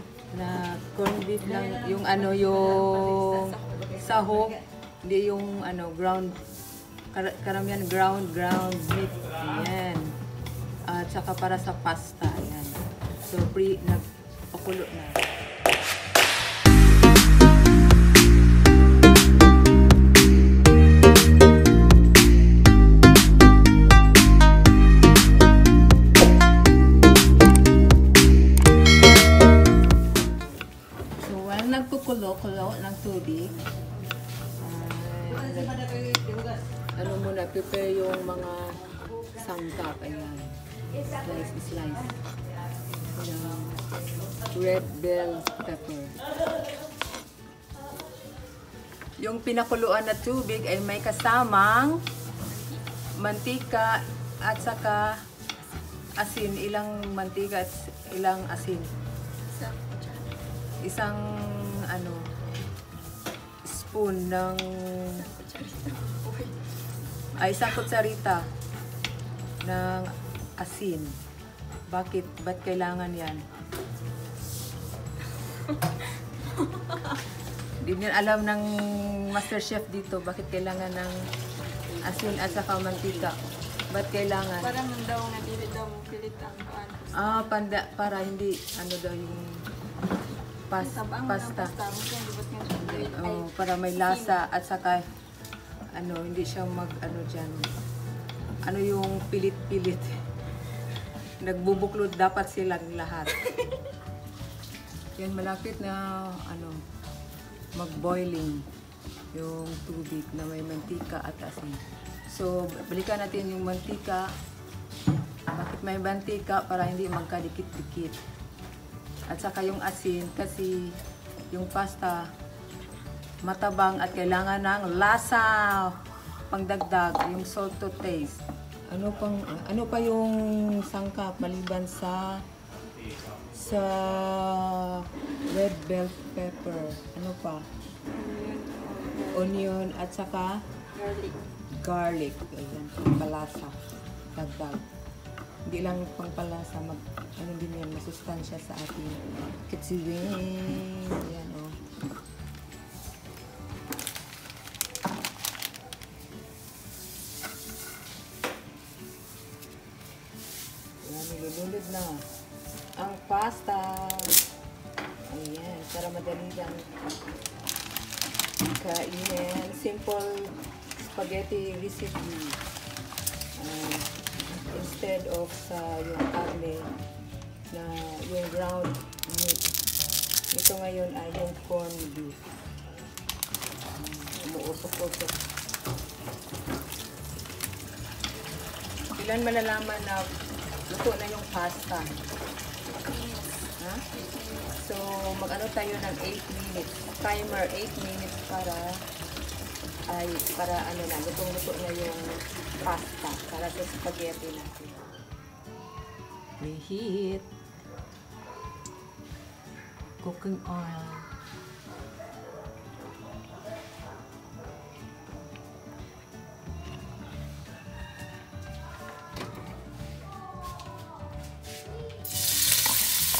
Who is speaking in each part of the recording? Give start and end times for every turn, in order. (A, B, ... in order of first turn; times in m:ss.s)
0:00.3-0:06.4 A
0:03.3-0:04.0 B
0:07.1-0:10.1 A
0:10.9-0:15.2 A
0:31.2-0:33.6 A
0:34.6-0:36.0 A
0:37.0-0:38.8 A
0:39.3-0:42.1 A
0:43.1-0:44.0 A
0:44.5-0:46.2 A
0:49.2-0:52.0 A
0:52.4-0:52.8 B
0:53.2-0:55.2 A
0:56.2-0:58.9 A
0:59.5-1:00.4 B
1:00.8-1:02.2 A
1:03.6-1:05.2 A
1:05.2-1:06.6 B
1:07.3-1:08.4 A
1:09.6-1:11.2 A
1:11.9-1:13.4 A
1:15.4-1:17.2 B
1:17.8-1:21.2 A
1:21.9-1:23.3 B
1:22.0-1:23.4 A
1:23.9-1:24.8 A
1:24.6-1:27.4 B
1:27.1-1:29.6 A
1:30.7-1:31.7 A
1:30.7-1:34.4 B
1:32.7-1:35.0 A
1:35.9-1:37.7 A
1:38.6-1:40.2 A
1:41.4-1:43.5 A
1:43.4-1:43.8 B
1:45.2-1:46.8 A
1:47.7-1:48.6 A
1:49.3-1:54.3 A
1:55.5-1:58.2 A
1:59.3-2:01.0 A
2:01.5-2:02.3 A
2:03.4-2:06.0 A
2:06.5-2:12.4 A
2:13.5-2:17.7 A
2:18.1-2:19.6 B
2:19.3-2:20.6 A
2:20.9-2:21.4 B
2:21.7-2:23.8 A
2:24.3-2:24.8 A
2:25.6-2:31.8 A
2:41.0-2:42.3 A
2:43.0-2:44.4 A
2:45.3-2:46.9 A
2:48.8-2:52.6 A
2:53.6-2:56.9 A
2:57.7-2:59.6 A
3:00.5-3:02.4 A
3:04.0-3:05.4 A
3:09.1-3:10.3 A
3:10.9-3:12.2 A
3:12.9-3:14.8 B
3:13.8-3:14.0 A
3:14.7-3:19.0 A
3:20.1-3:25.0 A
3:26.6-3:27.5 A
3:30.2-3:31.3 A